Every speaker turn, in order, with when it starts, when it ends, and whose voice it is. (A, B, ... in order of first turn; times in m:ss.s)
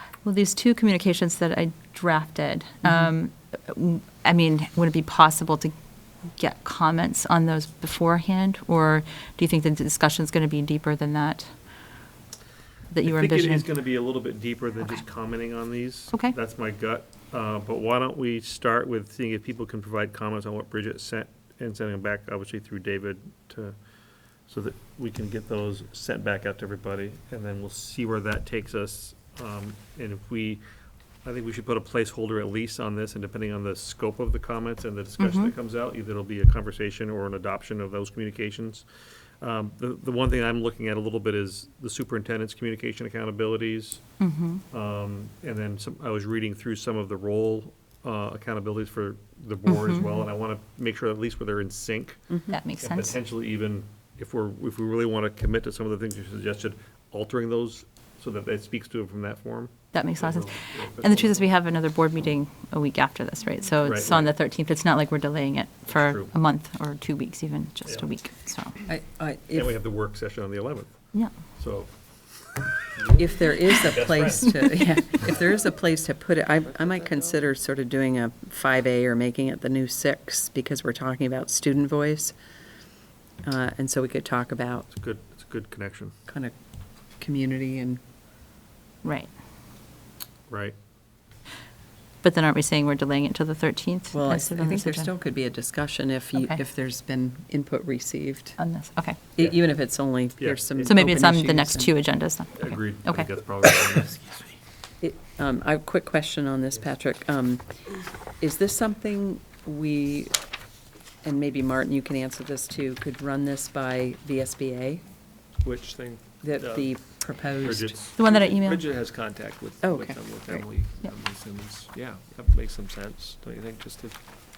0:00.2-0:05.7 A
0:06.3-0:11.6 A
0:12.9-0:13.7 A
0:13.0-0:23.8 B
0:24.5-0:30.6 B
0:31.2-0:38.8 B
0:35.2-0:35.5 A
0:39.4-0:44.0 B
0:44.2-0:44.6 A
0:44.7-1:01.5 B
0:49.7-0:50.2 A
0:52.5-0:53.2 A
0:59.9-1:08.8 A
1:03.8-1:04.3 B
1:05.9-1:06.3 B
1:08.8-1:09.8 C
1:09.5-1:11.0 B
1:11.6-1:11.9 B
1:13.0-1:13.3 D
1:13.1-1:15.0 B
1:13.2-1:22.3 C
1:16.6-1:17.3 D
1:23.4-1:24.9 C
1:24.9-1:26.1 B
1:26.3-1:26.5 C
1:27.2-1:28.0 C
1:29.0-1:29.3 A
1:30.5-1:30.7 B
1:32.2-1:35.1 A
1:34.1-1:38.6 C
1:36.3-1:36.6 A
1:38.6-1:39.2 A
1:39.4-1:41.9 C
1:40.4-1:41.0 B
1:40.8-1:43.3 A
1:42.6-1:44.2 B
1:45.0-1:47.6 C
1:48.4-1:50.3 C
1:51.2-1:55.0 C
1:55.6-1:56.9 D
1:56.4-1:58.1 C
1:57.6-1:58.1 B
1:58.2-1:58.8 A
1:58.2-2:04.2 D
1:59.8-2:00.6 C